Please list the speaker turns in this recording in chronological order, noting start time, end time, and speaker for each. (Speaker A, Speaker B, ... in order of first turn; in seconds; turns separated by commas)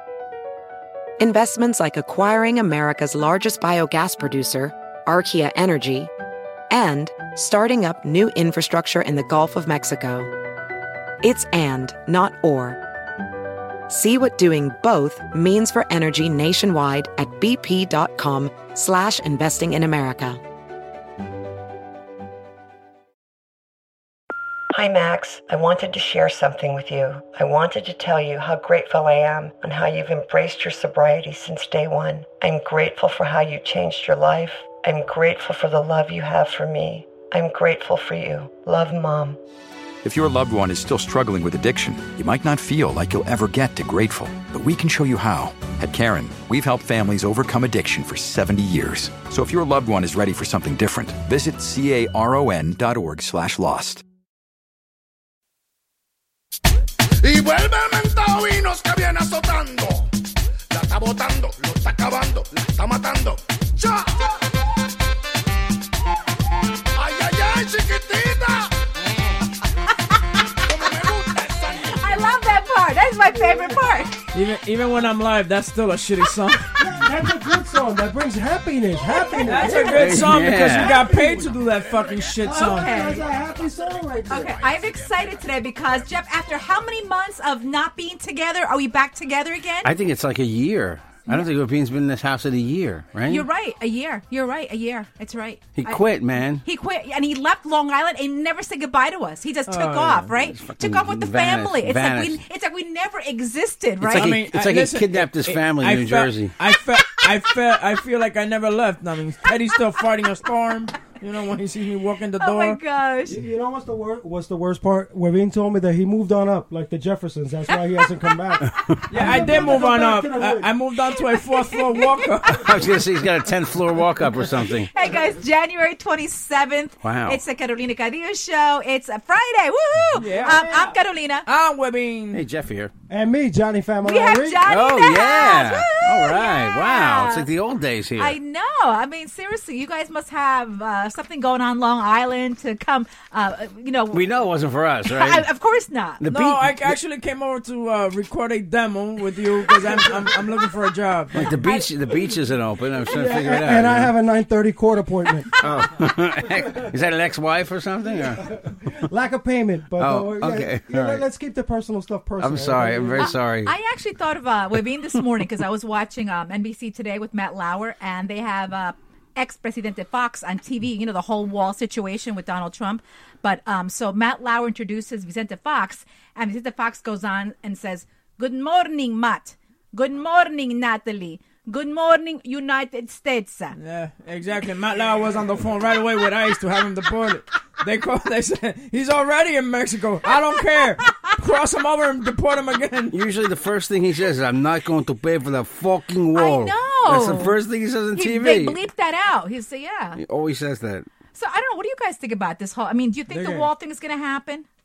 Speaker A: 1.2-6.1, Speaker A: 6.7-10.3, Speaker A: 11.2-12.8, Speaker A: 13.9-20.4, Speaker B: 24.7-39.4, Speaker C: 40.0-54.0, Speaker D: 57.2-60.1, Speaker D: 60.7-64.3, Speaker D: 67.0-68.8, Speaker D: 70.7-72.2, Speaker E: 71.9-74.2, Speaker F: 73.3-73.8, Speaker G: 74.3-76.7, Speaker F: 76.8-80.4, Speaker E: 79.1-80.0, Speaker G: 79.5-82.9, Speaker H: 79.9-81.0, Speaker F: 81.1-81.4, Speaker F: 82.4-84.6, Speaker E: 82.5-83.3, Speaker E: 84.3-89.9, Speaker H: 89.8-93.5, Speaker E: 93.3-104.4, Speaker H: 95.8-96.6, Speaker G: 99.7-100.3, Speaker H: 100.5-102.4, Speaker H: 104.0-106.5, Speaker G: 104.0-112.8, Speaker E: 112.4-113.4, Speaker F: 113.3-120.7, Speaker E: 117.7-118.0, Speaker G: 119.1-122.7, Speaker E: 121.1-122.7, Speaker H: 122.6-124.9, Speaker E: 124.9-131.5, Speaker H: 127.0-127.4, Speaker G: 130.2-132.4, Speaker H: 132.3-132.9, Speaker F: 133.1-134.7, Speaker E: 134.0-137.5, Speaker H: 134.7-138.4, Speaker E: 138.2-144.3, Speaker H: 144.1-145.5, Speaker E: 145.1-146.2, Speaker H: 146.2-147.0, Speaker G: 146.3-151.5, Speaker H: 151.3-154.1, Speaker E: 151.6-151.9, Speaker F: 153.1-155.5, Speaker E: 155.5-155.8, Speaker H: 155.6-158.5, Speaker F: 158.4-163.3, Speaker H: 160.0-161.2, Speaker H: 162.4-163.7, Speaker E: 163.2-183.8, Speaker G: 183.7-193.2, Speaker E: 190.6-191.3, Speaker H: 193.1-198.8, Speaker E: 196.3-197.6, Speaker E: 198.1-200.2, Speaker H: 200.2-201.1, Speaker E: 201.3-204.7, Speaker G: 203.3-203.7